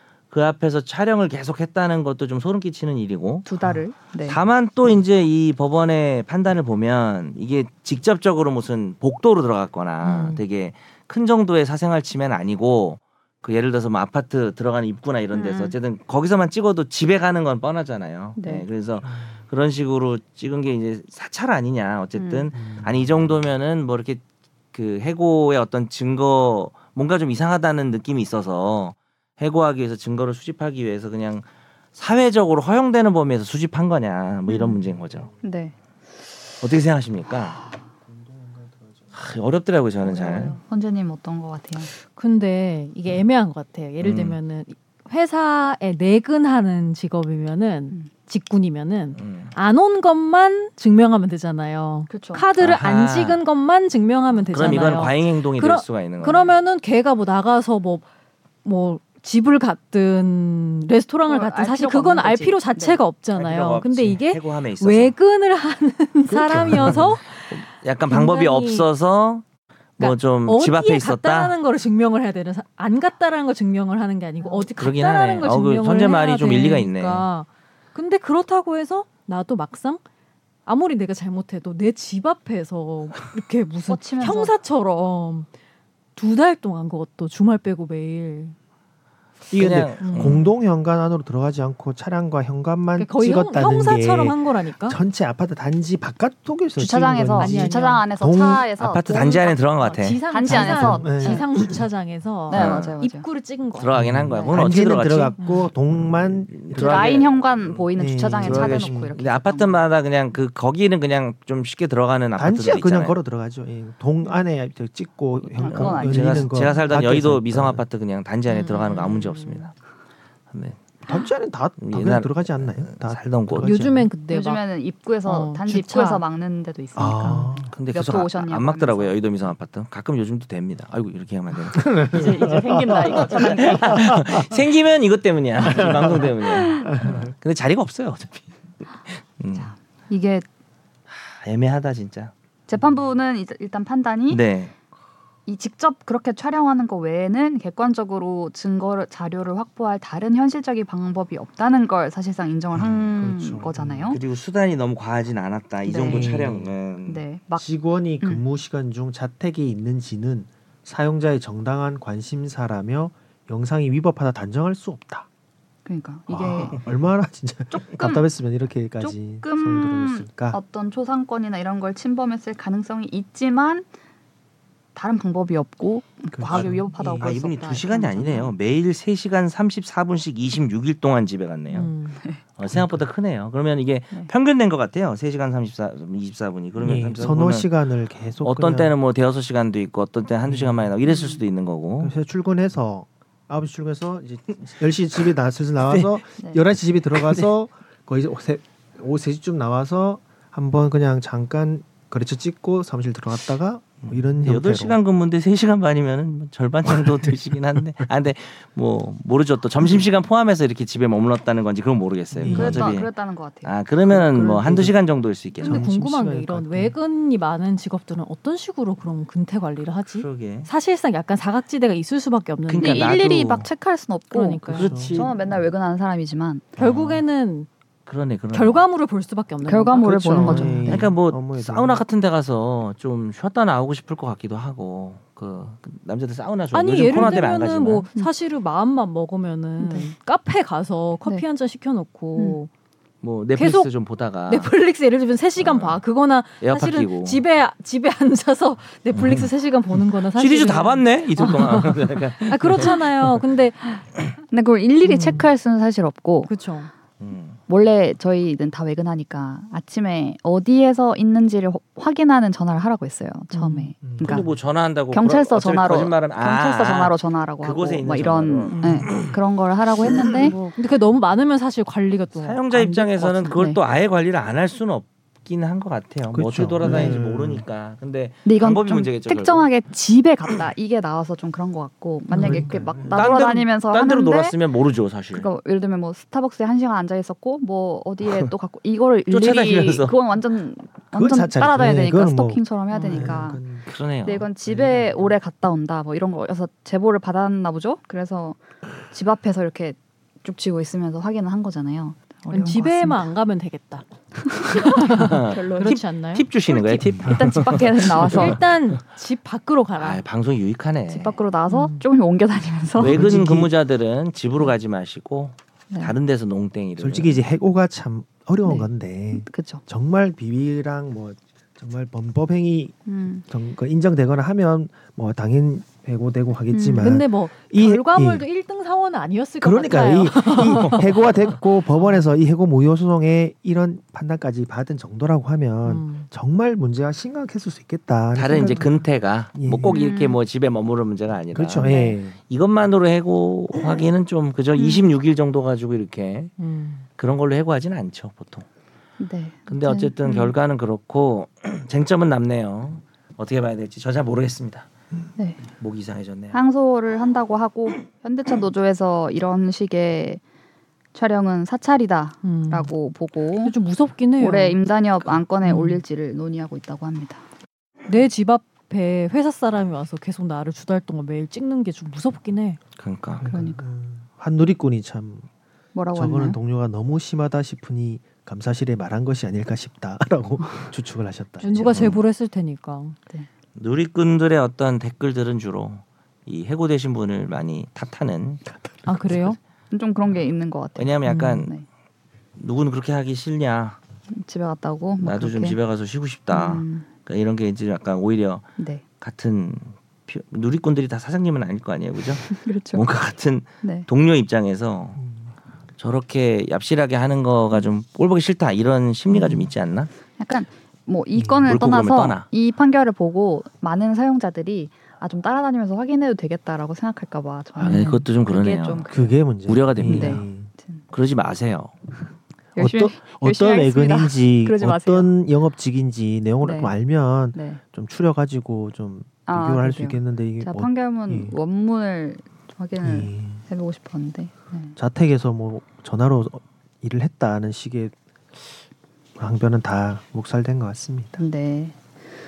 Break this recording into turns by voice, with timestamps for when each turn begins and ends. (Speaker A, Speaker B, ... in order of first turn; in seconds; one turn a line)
Speaker A: 0.3-3.5
Speaker B: 3.5-4.4
Speaker A: 4.2-35.3
Speaker C: 10.0-10.4
Speaker B: 15.3-15.8
Speaker B: 18.4-18.6
Speaker D: 19.0-19.3
Speaker B: 22.2-22.5
Speaker D: 22.6-23.3
Speaker B: 34.5-34.8
Speaker B: 35.4-35.8
Speaker A: 36.6-37.6
Speaker D: 38.1-39.1
Speaker A: 39.1-40.6
Speaker B: 40.0-41.9
Speaker C: 42.1-58.1
Speaker A: 44.0-44.4
Speaker A: 49.2-49.5
Speaker B: 52.1-52.5
Speaker A: 52.6-53.4
Speaker A: 54.5-56.5
Speaker C: 58.6-68.9
Speaker B: 61.3-63.0
Speaker A: 63.4-65.2
Speaker D: 66.3-67.2
Speaker A: 66.5-69.4
Speaker A: 70.0-71.6
Speaker C: 70.0-80.0
Speaker B: 74.4-74.7
Speaker A: 74.8-77.2
Speaker C: 80.7-85.5
Speaker B: 83.9-84.5
Speaker C: 86.2-88.5
Speaker D: 89.5-98.7
Speaker A: 89.5-90.5
Speaker C: 90.0-90.5
Speaker C: 93.0-95.0
Speaker B: 96.8-101.5
Speaker C: 97.4-98.0
Speaker A: 98.8-100.2
Speaker C: 99.6-104.5
Speaker D: 100.5-101.5
Speaker B: 102.5-103.3
Speaker A: 102.5-103.0
Speaker A: 103.7-105.4
Speaker D: 103.9-107.2
Speaker B: 104.3-104.9
Speaker C: 105.4-105.7
Speaker A: 105.9-113.2
Speaker B: 106.7-109.8
Speaker D: 108.0-109.1
Speaker D: 112.4-117.8
Speaker B: 115.6-116.9
Speaker A: 115.6-119.7
Speaker C: 118.5-119.7
Speaker A: 120.5-120.8
Speaker D: 121.1-124.1
Speaker A: 121.8-123.8
Speaker C: 123.6-124.6
Speaker B: 124.2-129.2
Speaker C: 125.2-126.2
Speaker D: 127.0-127.8
Speaker A: 127.7-132.5
Speaker D: 131.8-134.4
Speaker B: 132.1-134.2
Speaker A: 133.1-139.7
Speaker D: 135.6-137.3
Speaker B: 136.6-137.0
Speaker B: 139.6-140.4
Speaker A: 141.1-142.3
Speaker B: 142.7-144.4
Speaker A: 144.3-144.7
Speaker B: 145.5-154.2
Speaker D: 152.8-154.2
Speaker A: 154.1-157.2
Speaker B: 155.9-156.5
Speaker D: 155.9-156.7
Speaker B: 157.1-157.7
Speaker D: 157.6-165.3
Speaker B: 165.9-166.8
Speaker D: 166.3-170.6
Speaker B: 167.7-168.3
Speaker B: 169.0-173.9
Speaker B: 174.9-178.5
Speaker D: 176.3-177.4
Speaker A: 176.5-181.9
Speaker C: 181.7-182.2
Speaker A: 182.6-187.7
Speaker D: 182.7-183.1
Speaker D: 186.8-188.9
Speaker A: 188.4-192.1
Speaker D: 190.5-190.9
Speaker B: 191.1-191.4
Speaker D: 192.0-205.0
Speaker A: 197.1-197.5
Speaker A: 204.0-213.1
Speaker D: 206.9-207.3
Speaker D: 212.3-212.9
Speaker B: 212.5-214.9
Speaker A: 213.6-215.8
Speaker D: 214.7-214.9
Speaker D: 215.6-217.0
Speaker C: 215.6-223.2
Speaker A: 220.1-220.7
Speaker A: 222.7-223.7
Speaker B: 222.8-226.7
Speaker C: 224.3-225.0
Speaker A: 224.7-225.4
Speaker D: 224.7-225.3
Speaker C: 226.8-227.7
Speaker D: 226.8-227.2
Speaker A: 228.1-228.8
Speaker C: 228.5-230.9
Speaker B: 229.6-231.1
Speaker D: 230.0-232.0
Speaker A: 230.9-238.1
Speaker C: 236.7-242.7
Speaker B: 237.1-237.4
Speaker B: 239.8-240.1
Speaker A: 243.2-244.7
Speaker C: 243.6-243.9
Speaker C: 244.5-254.0
Speaker A: 245.6-246.0
Speaker A: 246.6-247.4
Speaker A: 249.1-249.5
Speaker A: 250.3-252.9
Speaker B: 251.4-251.9
Speaker B: 254.4-256.5
Speaker C: 255.1-255.5
Speaker C: 256.5-256.9
Speaker A: 257.2-257.6
Speaker B: 257.7-264.5
Speaker C: 263.5-263.9
Speaker D: 264.0-264.5
Speaker A: 264.2-269.4
Speaker B: 265.1-270.6
Speaker C: 268.7-269.1
Speaker C: 270.4-272.6
Speaker A: 272.3-279.7
Speaker B: 272.7-273.8
Speaker D: 276.3-277.6
Speaker B: 276.9-277.2
Speaker B: 278.5-284.6
Speaker C: 282.3-282.6
Speaker D: 282.4-283.2
Speaker A: 283.1-285.5
Speaker B: 285.3-293.6
Speaker A: 289.3-290.1
Speaker D: 291.1-293.9
Speaker C: 292.9-293.3
Speaker A: 293.9-294.5
Speaker B: 294.2-303.3
Speaker D: 294.7-295.4
Speaker C: 302.5-306.8
Speaker B: 304.4-306.0
Speaker A: 305.1-308.7
Speaker B: 306.7-308.6
Speaker D: 307.1-307.6
Speaker C: 308.2-310.2
Speaker A: 310.0-311.4
Speaker B: 311.1-313.6
Speaker C: 311.7-312.0
Speaker A: 313.0-317.4
Speaker D: 313.0-313.7
Speaker D: 317.0-322.9
Speaker B: 318.6-319.8
Speaker B: 323.1-323.4
Speaker D: 323.5-328.5
Speaker B: 326.7-327.2
Speaker C: 327.0-331.5
Speaker D: 329.6-340.0
Speaker A: 330.7-331.1
Speaker C: 335.9-336.3
Speaker A: 338.3-346.6
Speaker B: 338.5-338.9
Speaker B: 339.9-340.4
Speaker D: 341.5-342.4
Speaker B: 341.8-342.2
Speaker B: 344.8-345.0
Speaker C: 346.6-347.1
Speaker A: 347.2-348.7
Speaker B: 349.2-350.5
Speaker A: 349.7-354.9
Speaker A: 355.7-356.6
Speaker B: 356.5-360.4
Speaker B: 361.1-363.8
Speaker C: 362.4-362.9
Speaker C: 363.6-364.8
Speaker B: 364.4-367.4
Speaker C: 365.6-366.0
Speaker C: 368.1-372.8
Speaker A: 373.0-373.5
Speaker D: 373.4-375.5
Speaker B: 373.5-373.9
Speaker B: 375.9-376.6
Speaker D: 376.1-382.2
Speaker C: 381.6-383.2
Speaker A: 381.8-382.2
Speaker A: 383.8-388.6
Speaker D: 388.8-389.4
Speaker C: 389.1-389.6
Speaker A: 389.2-389.5
Speaker B: 389.9-391.9
Speaker A: 391.0-391.8
Speaker C: 391.2-391.7
Speaker A: 392.6-394.0
Speaker B: 394.3-395.8
Speaker A: 395.2-398.7
Speaker B: 396.5-397.1
Speaker B: 398.8-399.0
Speaker A: 399.2-405.2
Speaker B: 402.5-403.0
Speaker D: 405.2-405.5
Speaker A: 406.0-410.1
Speaker B: 409.3-409.7
Speaker B: 410.4-419.4
Speaker D: 411.3-411.8
Speaker A: 411.7-412.5
Speaker A: 417.8-419.1
Speaker D: 419.1-420.7
Speaker A: 419.6-420.5
Speaker B: 420.0-421.0
Speaker A: 421.1-421.9
Speaker B: 422.8-425.3
Speaker D: 422.8-431.6
Speaker B: 426.6-426.9
Speaker B: 427.5-427.8
Speaker B: 429.5-435.0
Speaker D: 433.0-433.7
Speaker D: 435.0-438.6
Speaker D: 439.4-441.4
Speaker B: 441.4-442.0